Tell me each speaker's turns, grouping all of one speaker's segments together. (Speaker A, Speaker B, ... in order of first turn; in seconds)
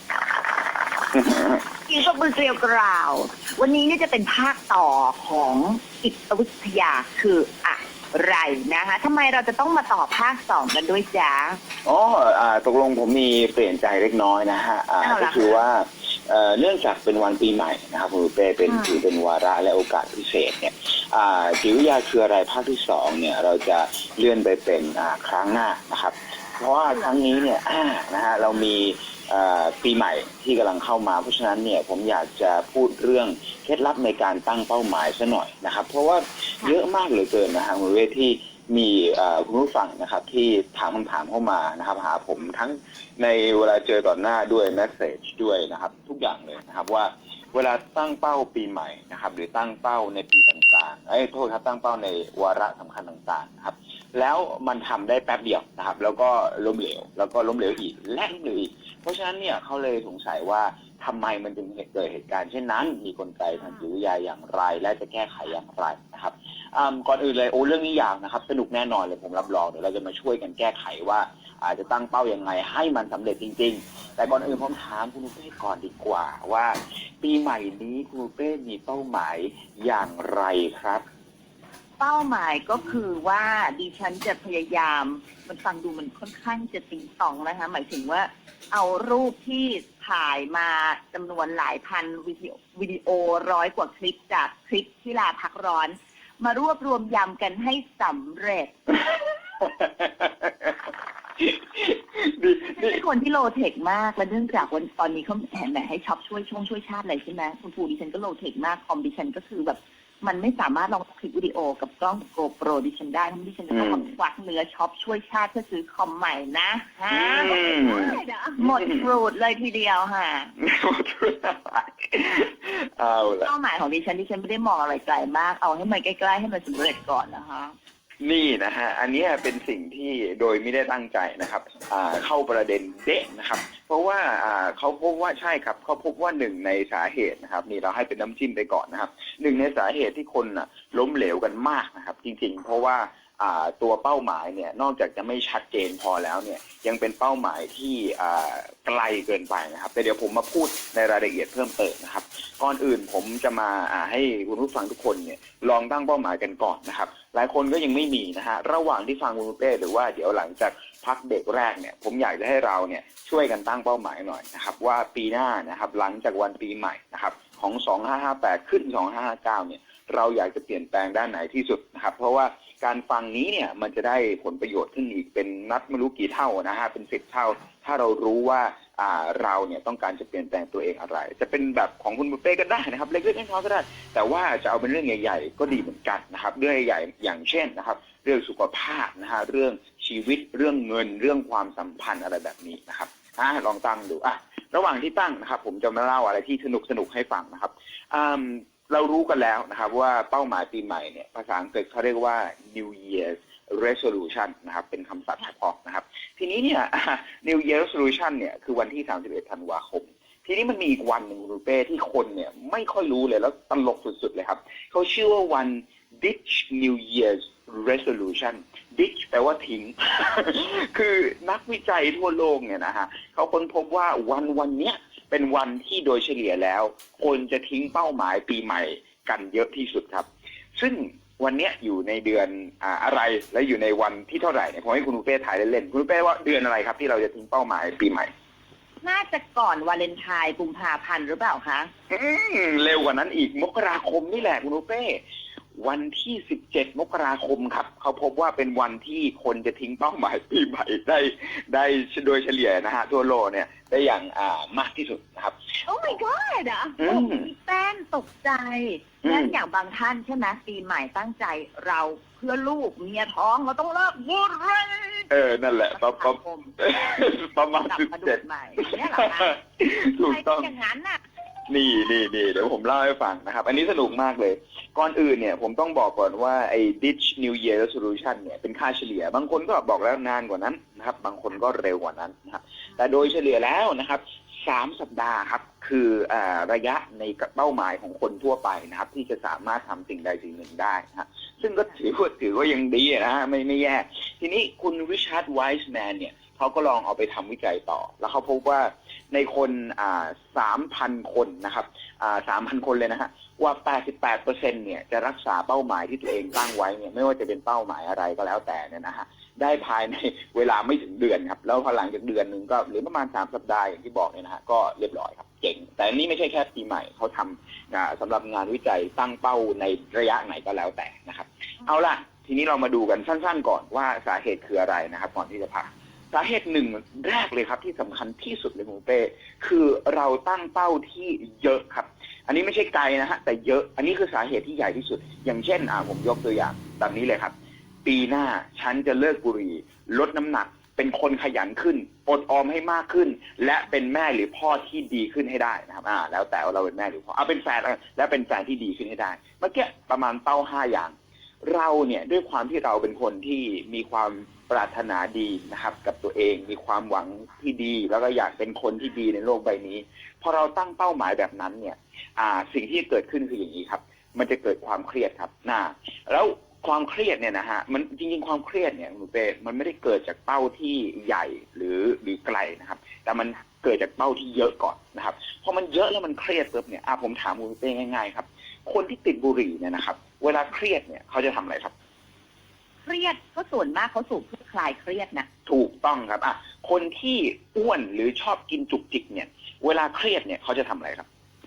Speaker A: 1.1-1.6, 11.8-81.0, 99.6-100.8, 101.4-103.0, 113.7-114.0, 117.1-119.0, 120.6-123.5, 128.2-238.3, 242.1-245.2, 245.8-255.6, 257.0-257.5, 259.2-259.6, 265.3-268.4, 269.2-270.7, 271.7-337.5, 338.1-381.9, 385.7-391.3
Speaker B: 1.9-11.6, 15.0-15.6, 18.6-19.0, 82.0-98.7, 102.8-120.5, 123.4-127.8, 239.0-241.9, 255.9-265.3, 265.9-266.8, 267.9-269.6, 270.1-271.2, 383.1-385.5